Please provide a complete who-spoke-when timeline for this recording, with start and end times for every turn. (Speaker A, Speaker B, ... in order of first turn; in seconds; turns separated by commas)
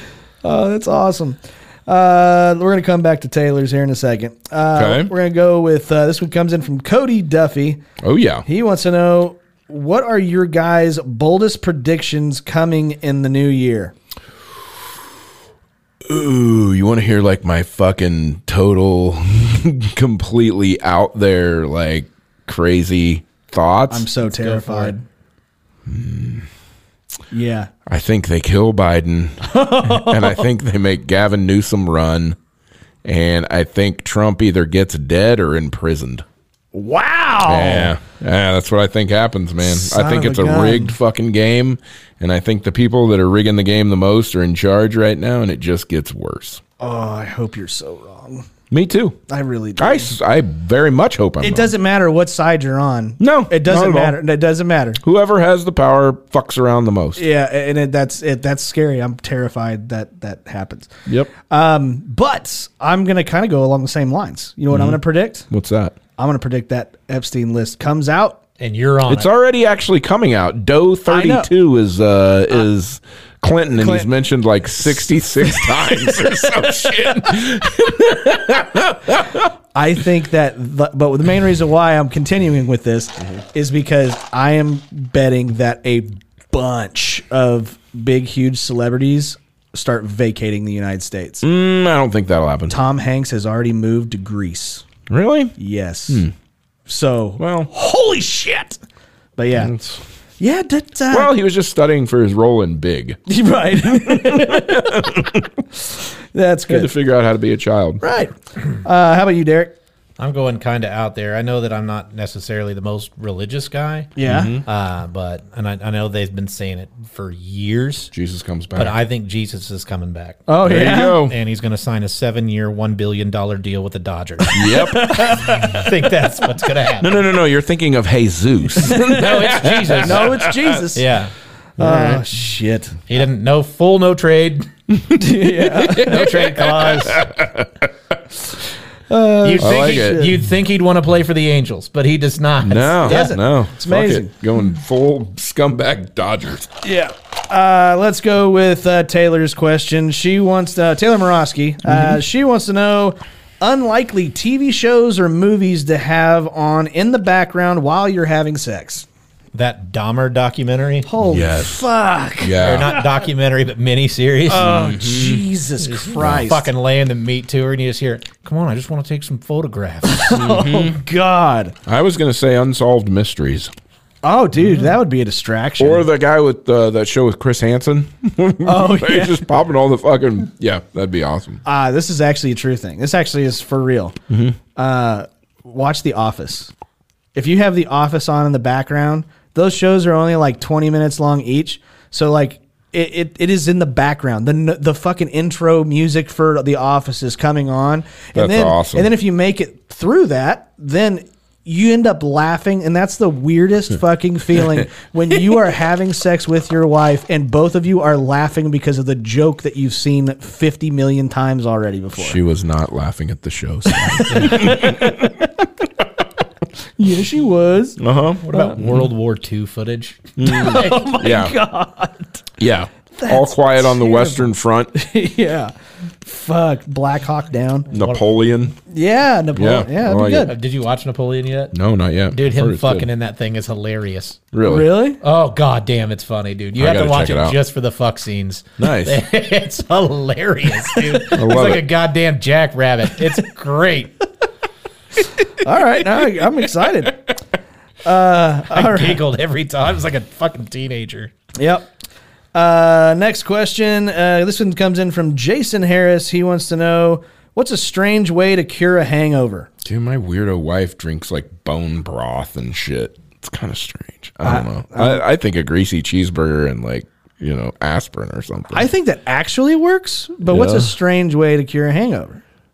Speaker A: 0.4-7.8, Speaker B: 4.7-5.1, Speaker B: 8.0-8.4, Speaker A: 8.4-13.9, Speaker B: 16.1-24.1, Speaker A: 23.9-25.1, Speaker C: 24.2-24.9, Speaker B: 25.9-26.5, Speaker A: 27.3-27.7, Speaker B: 27.9-32.4, Speaker A: 29.4-30.5, Speaker B: 33.0-36.2, Speaker A: 36.7-38.0, Speaker B: 37.5-46.6, Speaker A: 39.6-41.0, Speaker A: 46.8-48.5, Speaker B: 48.7-49.2, Speaker A: 49.3-50.1, Speaker B: 49.8-51.7, Speaker A: 51.4-55.0, Speaker B: 53.2-54.2, Speaker B: 55.0-57.2, Speaker A: 57.2-65.5, Speaker B: 61.1-61.3, Speaker B: 64.7-66.0, Speaker A: 66.2-68.4, Speaker C: 68.6-69.3, Speaker B: 69.1-79.5, Speaker A: 71.1-71.5, Speaker A: 73.7-74.1, Speaker A: 75.4-77.4, Speaker A: 79.7-91.4, Speaker B: 91.4-92.8, Speaker A: 92.7-94.9, Speaker B: 95.1-95.6, Speaker A: 95.6-96.2, Speaker A: 96.9-98.8, Speaker B: 97.4-97.7, Speaker A: 99.4-99.7, Speaker B: 99.6-100.0, Speaker A: 100.4-101.3, Speaker B: 101.1-103.2, Speaker A: 103.3-106.9, Speaker B: 103.9-105.5, Speaker B: 106.7-108.0, Speaker A: 108.0-109.8, Speaker C: 110.2-114.1, Speaker A: 114.2-114.5, Speaker B: 114.2-114.7, Speaker C: 114.7-118.1, Speaker B: 118.1-119.0, Speaker C: 118.8-120.5, Speaker A: 120.5-121.2, Speaker B: 120.7-121.3, Speaker C: 121.2-124.6, Speaker B: 124.5-125.2, Speaker A: 124.7-125.9, Speaker C: 125.6-127.2, Speaker B: 127.0-130.8, Speaker A: 128.8-129.2, Speaker C: 128.9-130.3, Speaker A: 130.0-131.1, Speaker C: 130.9-131.3, Speaker B: 131.8-132.2, Speaker A: 131.8-133.0, Speaker C: 133.1-134.7, Speaker B: 135.0-137.9, Speaker A: 135.2-136.3, Speaker C: 135.9-137.2, Speaker A: 139.1-140.3, Speaker C: 139.4-143.3, Speaker B: 139.6-140.3, Speaker B: 142.7-146.7, Speaker A: 143.0-144.3, Speaker A: 146.8-159.1, Speaker B: 151.9-152.2, Speaker C: 159.5-161.1, Speaker A: 161.1-163.1, Speaker B: 161.2-161.9, Speaker B: 162.4-162.9, Speaker C: 162.6-164.7, Speaker A: 164.5-166.7, Speaker B: 164.5-165.4, Speaker C: 165.8-170.4, Speaker B: 166.2-166.5, Speaker A: 170.1-171.8, Speaker B: 170.3-171.0, Speaker B: 171.9-173.7, Speaker A: 174.2-176.1, Speaker B: 175.8-181.6, Speaker A: 178.6-179.5, Speaker A: 181.6-184.2, Speaker B: 184.3-184.6, Speaker A: 184.8-186.7, Speaker A: 187.3-212.4, Speaker B: 198.3-199.1, Speaker B: 212.2-215.5, Speaker A: 213.9-215.5, Speaker C: 214.3-214.8, Speaker A: 217.0-218.8, Speaker B: 218.0-219.1, Speaker C: 218.5-220.5, Speaker B: 220.4-221.6, Speaker A: 220.4-222.4, Speaker B: 222.6-224.9, Speaker A: 223.2-225.7, Speaker A: 226.2-227.9, Speaker B: 227.9-228.8, Speaker C: 227.9-228.3, Speaker A: 228.9-230.5, Speaker B: 229.6-230.5, Speaker C: 230.4-231.8, Speaker B: 231.7-233.1, Speaker C: 232.3-234.4, Speaker B: 234.5-234.9, Speaker A: 234.7-235.2, Speaker C: 235.2-244.2, Speaker B: 236.8-237.6, Speaker B: 238.8-239.2, Speaker B: 241.3-241.8, Speaker A: 245.5-247.2, Speaker A: 248.0-249.2, Speaker C: 248.7-251.3, Speaker A: 251.6-251.9, Speaker A: 252.5-259.7, Speaker B: 259.8-268.9, Speaker A: 264.4-265.2, Speaker A: 268.7-272.4, Speaker B: 270.4-270.9